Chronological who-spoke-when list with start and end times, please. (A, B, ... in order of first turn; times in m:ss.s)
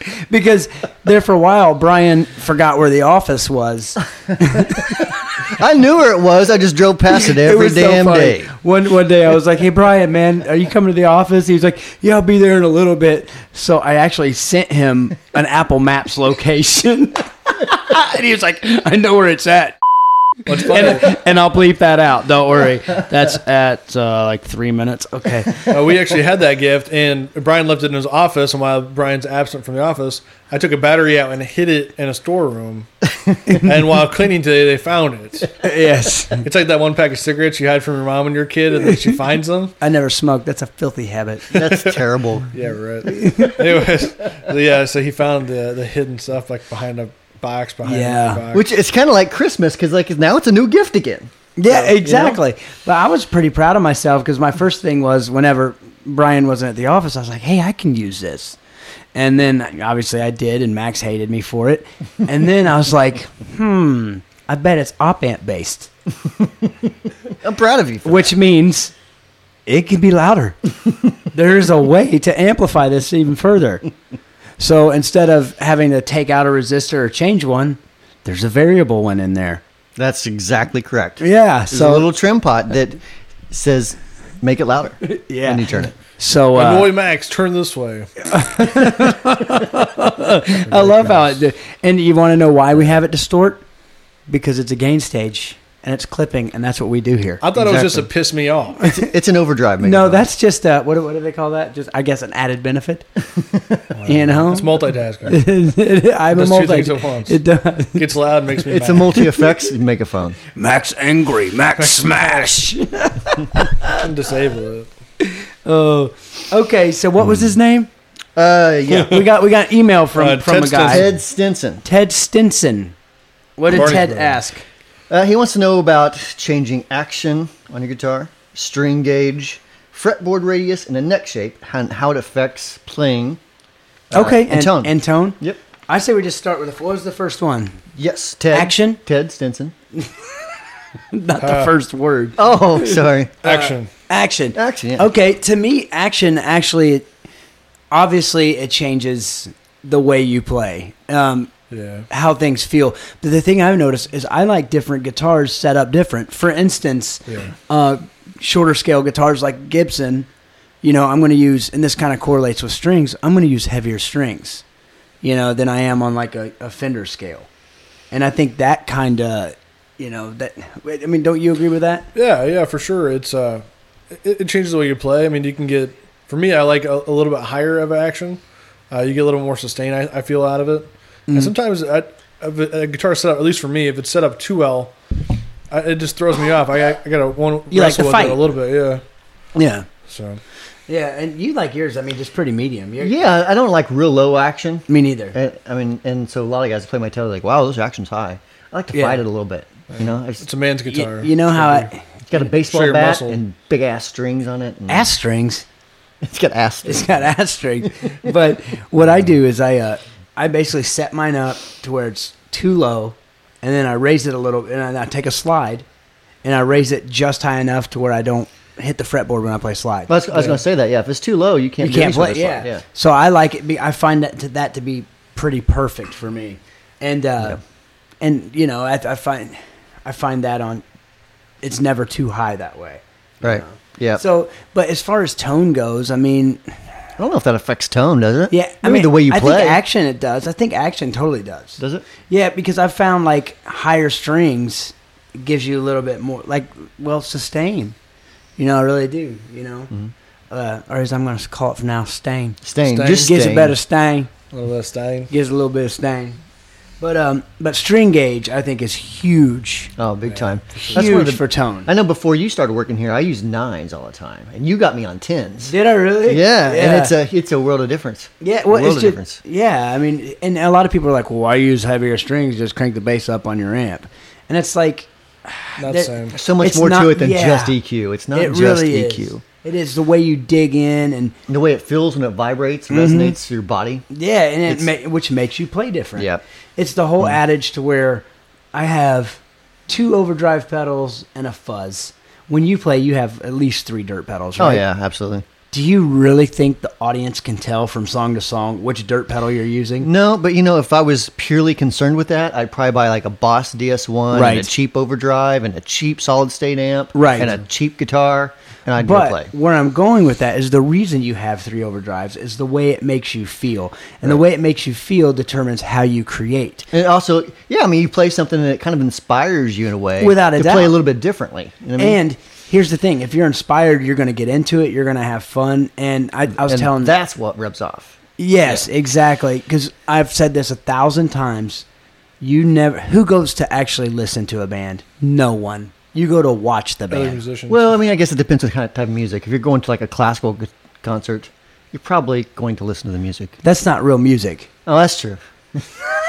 0:00.3-0:05.0 A
0:05.5-0:08.5 B
0:07.2-0:19.8 A
0:20.5-0:21.2 C
0:20.5-0:25.6 A
0:25.6-0:32.9 C
0:33.6-0:35.5 C
0:35.6-0:36.4 A
0:36.4-0:39.7 C
0:39.8-0:41.6 A
0:41.5-0:42.5 B
0:41.6-0:42.0 C
0:42.5-0:48.6 C
0:43.0-0:43.6 A
0:47.8-0:48.4 A
0:48.5-0:51.3 B
0:51.6-0:58.6 A
0:51.7-0:52.4 C
0:59.1-1:05.9 A
1:07.4-1:08.3 B
1:08.0-1:08.9 A
1:09.6-1:10.6 A
1:11.3-1:13.9 A
1:14.6-1:19.6 A
1:20.0-1:25.9 B
1:21.2-1:22.0 A
1:25.0-1:26.9 A
1:26.5-1:28.9 C
1:28.2-1:33.6 A
1:30.7-1:31.3 C
1:34.3-1:37.4 A
1:37.4-1:38.8 C
1:37.5-1:38.1 B
1:38.8-1:40.2 B
1:39.8-1:43.0 A
1:43.4-1:43.9 B
1:43.9-1:45.4 C
1:44.1-1:48.0 A
1:46.3-1:47.3 C
1:47.9-1:49.2 C
1:48.7-1:49.6 A
1:48.7-1:50.4 B
1:50.5-1:54.0 A
1:51.8-1:52.5 C
1:53.8-1:54.9 C
1:55.2-1:57.9 A
1:58.4-1:59.3 B
1:58.9-2:01.1 A
2:00.2-2:01.1 C
2:00.9-2:01.8 B
2:01.8-2:02.9 A
2:03.6-2:04.6 A
2:03.7-2:04.4 C
2:05.1-2:13.4 B
2:14.1-2:15.6 B
2:14.1-2:17.8 A
2:17.9-2:19.7 B
2:18.5-2:19.0 A
2:21.1-2:27.1 A
2:21.4-2:21.7 C
2:22.4-2:23.3 B
2:23.4-2:23.9 C
2:24.5-2:25.1 B
2:27.9-2:31.5 A
2:31.7-2:32.1 C
2:32.1-2:40.3 A
2:37.3-2:37.5 C
2:40.8-2:44.6 A
2:45.2-2:47.5 A
2:48.1-2:52.1 A
2:52.1-2:58.4 C
2:58.9-3:04.9 C
3:05.7-3:09.0 C
3:07.7-3:08.4 A
3:09.5-3:09.9 A
3:10.1-3:10.4 C
3:10.9-3:13.2 A
3:13.0-3:20.4 B
3:14.9-3:15.4 A
3:18.9-3:19.2 A
3:19.9-3:21.9 C
3:20.9-3:22.0 A
3:22.3-3:25.1 B
3:22.5-3:23.4 C
3:24.9-3:25.6 A
3:26.2-3:27.2 B
3:26.8-3:35.8 A
3:36.4-3:40.5 A
3:40.1-3:42.8 B
3:41.8-3:47.6 A
3:48.2-3:50.8 A
3:51.6-3:56.8 A
3:53.4-3:54.2 B
3:57.2-3:59.8 B
3:58.5-4:08.0 A
4:01.8-4:02.0 B
4:08.6-4:09.9 A
4:10.5-4:14.3 A
4:12.6-4:13.8 B
4:12.8-4:13.3 C
4:14.5-4:15.3 C
4:15.3-4:16.4 A
4:17.0-4:19.9 A
4:20.0-4:25.7 B
4:20.3-4:21.1 C
4:20.8-4:21.9 A
4:25.7-4:27.1 A
4:26.2-4:29.4 B
4:28.4-4:37.8 A
4:35.8-4:36.4 C
4:36.3-4:39.4 B
4:38.3-4:41.4 A
4:41.5-4:44.0 B
4:42.9-4:43.4 A
4:44.1-4:54.8 A
4:54.6-4:55.4 B
4:55.7-5:00.1 A
5:00.0-5:09.5 B
5:04.3-5:04.7 A
5:07.1-5:07.5 A
5:09.0-5:16.9 A
5:16.9-5:22.2 B
5:20.2-5:21.0 A
5:22.0-5:27.1 A
5:26.6-5:28.9 B
5:28.4-5:31.8 A
5:32.4-5:37.4 A
5:37.1-5:37.8 C
5:37.7-5:43.5 B
5:43.6-5:44.7 A
5:44.8-5:45.4 B